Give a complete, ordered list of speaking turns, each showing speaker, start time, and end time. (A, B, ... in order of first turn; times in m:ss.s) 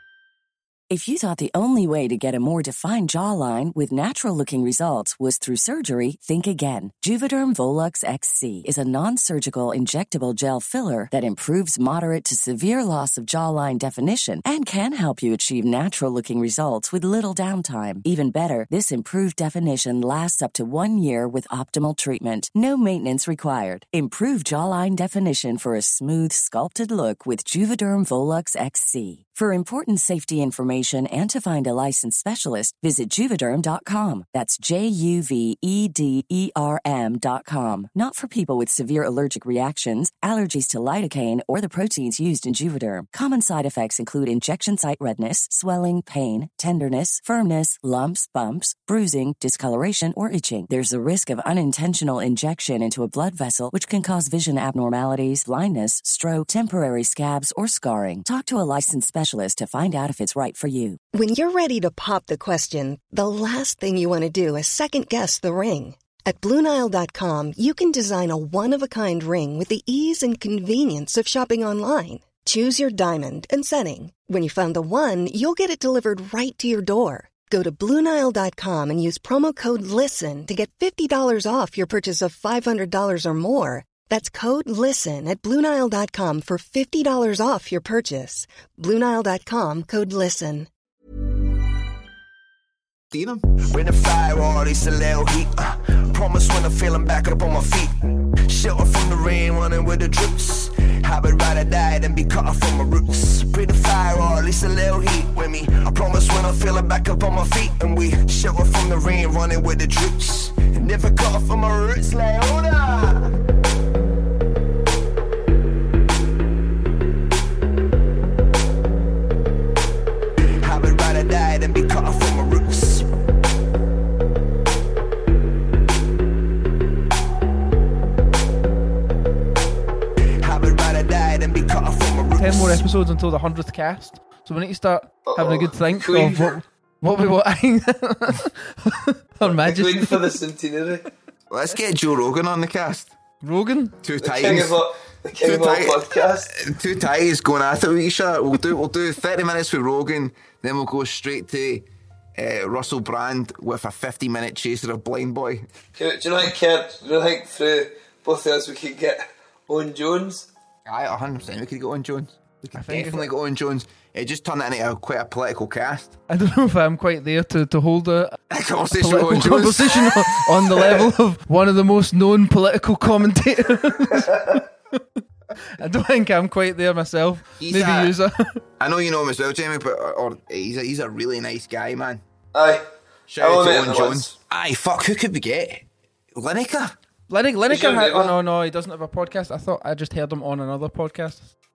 0:00.9-1:01.0 A
1:01.1-1:30.7 B
1:33.1-1:33.4 C
1:33.6-1:53.3 D
2:00.6-2:03.1 D
2:10.4-2:12.8 D
2:12.4-2:20.2 E
2:15.3-2:16.6 F
2:19.4-2:21.0 F
2:21.5-2:23.1 C
2:23.4-2:24.0 E
2:24.0-2:24.8 C
2:24.2-2:26.5 F
2:25.4-2:35.7 C
2:36.0-2:40.5 F
2:40.9-2:46.1 C
2:42.7-2:43.3 E
2:46.3-2:48.4 E
2:48.5-2:50.8 C
2:48.9-2:54.6 E
2:55.8-2:58.6 E
2:57.6-2:58.1 C
2:58.8-3:02.2 C
3:02.5-3:02.8 F
3:03.3-3:05.8 C
3:03.4-3:04.3 F
3:06.4-3:07.0 C
3:07.3-3:11.5 E
3:07.7-3:08.4 F